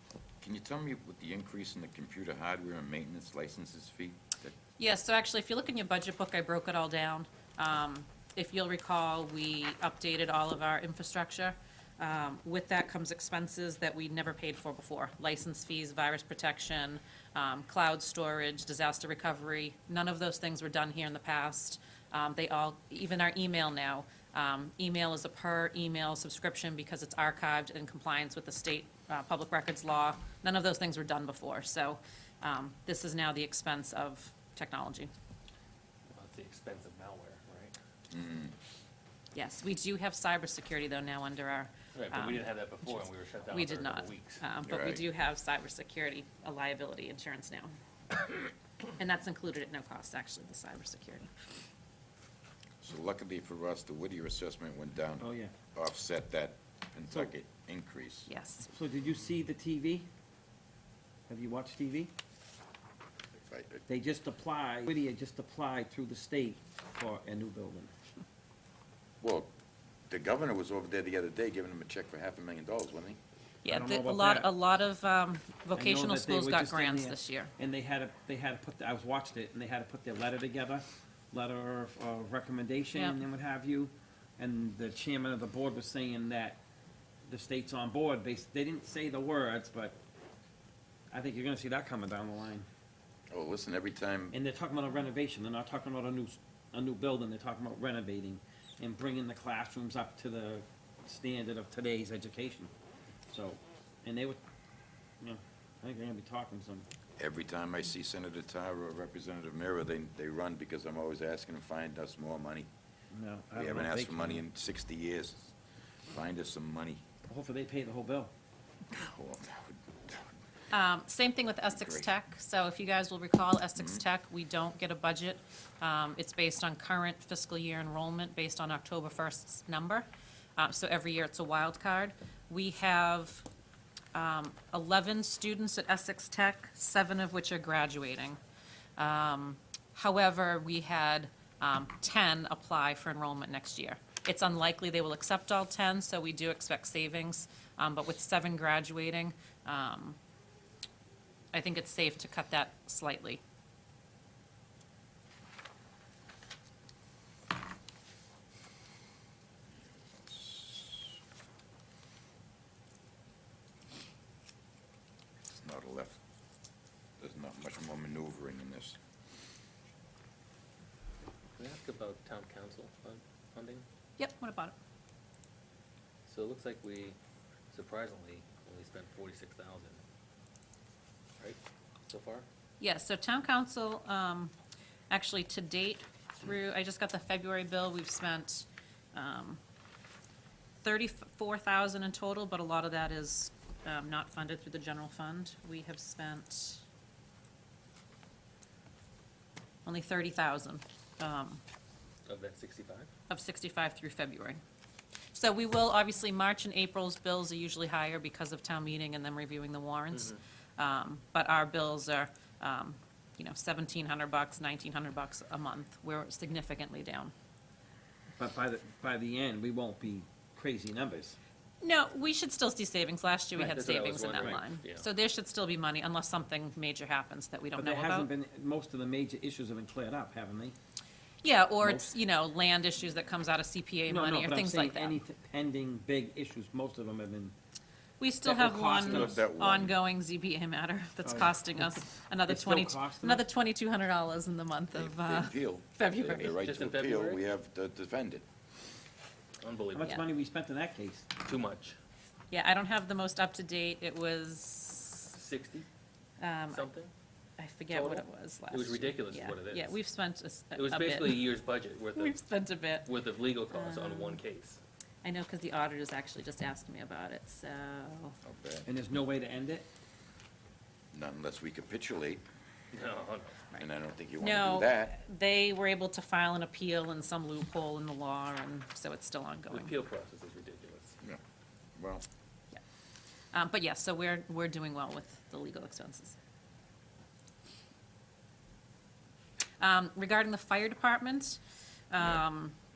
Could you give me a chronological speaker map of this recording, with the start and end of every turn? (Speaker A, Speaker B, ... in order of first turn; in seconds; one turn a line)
Speaker A: 0.4-4.5
Speaker B: 4.8-35.1
Speaker C: 36.1-37.8
Speaker A: 38.1-38.5
Speaker B: 39.3-43.0
Speaker C: 41.9-44.4
Speaker B: 43.5-47.7
Speaker A: 44.6-45.0
Speaker B: 49.0-51.3
Speaker A: 52.8-58.3
Speaker D: 55.2-55.5
Speaker B: 58.3-58.7
Speaker D: 58.6-60.1
Speaker D: 61.3-62.1
Speaker A: 63.4-63.8
Speaker D: 63.9-67.9
Speaker A: 69.2-69.5
Speaker A: 70.1-73.2
Speaker B: 73.6-77.5
Speaker D: 73.7-74.5
Speaker D: 75.7-86.6
Speaker B: 82.9-83.2
Speaker D: 87.3-90.0
Speaker D: 91.1-92.7
Speaker A: 93.3-94.3
Speaker D: 94.3-102.7
Speaker D: 103.3-104.4
Speaker D: 105.2-106.9
Speaker A: 107.2-112.7
Speaker D: 113.1-114.4
Speaker A: 113.5-115.5
Speaker A: 116.1-117.0
Speaker D: 117.3-118.3
Speaker A: 118.9-120.3
Speaker B: 120.7-133.4
Speaker A: 121.7-122.1
Speaker A: 123.8-124.0
Speaker B: 134.1-138.4
Speaker B: 139.0-150.2
Speaker B: 151.5-153.4
Speaker A: 160.1-161.1
Speaker A: 165.5-166.2
Speaker A: 167.2-169.0
Speaker C: 171.6-173.8
Speaker B: 174.2-174.7
Speaker C: 176.2-177.2
Speaker C: 177.7-180.0
Speaker C: 181.4-182.4
Speaker B: 182.8-184.5
Speaker B: 185.1-189.6
Speaker B: 190.8-196.8
Speaker B: 199.8-201.6
Speaker C: 202.2-203.1
Speaker B: 203.3-204.6
Speaker B: 205.3-217.3
Speaker C: 210.1-210.4
Speaker D: 218.4-221.4
Speaker B: 221.8-228.3
Speaker C: 223.5-225.1
Speaker D: 227.7-230.8
Speaker B: 231.4-235.2
Speaker D: 231.8-232.2
Speaker D: 234.1-237.5
Speaker B: 238.2-246.5
Speaker D: 238.4-239.4
Speaker A: 238.9-239.9
Speaker D: 241.2-243.4
Speaker A: 244.9-248.4
Speaker C: 246.4-247.4
Speaker C: 249.6-250.2
Speaker D: 249.9-251.3
Speaker C: 251.4-252.0
Speaker B: 252.5-255.3
Speaker C: 255.3-255.9
Speaker B: 256.4-256.9
Speaker C: 256.7-257.1
Speaker B: 257.6-261.4
Speaker C: 257.9-260.0
Speaker C: 260.7-262.5
Speaker B: 262.1-263.1
Speaker C: 263.0-264.8
Speaker B: 263.7-264.4
Speaker B: 265.2-268.4
Speaker A: 268.4-268.9
Speaker D: 268.9-269.9
Speaker A: 271.1-272.4
Speaker C: 272.9-273.6
Speaker A: 273.7-275.1
Speaker B: 274.4-279.9
Speaker C: 279.7-281.1
Speaker A: 281.9-282.2
Speaker B: 283.5-286.4
Speaker B: 289.8-291.6
Speaker B: 292.1-292.7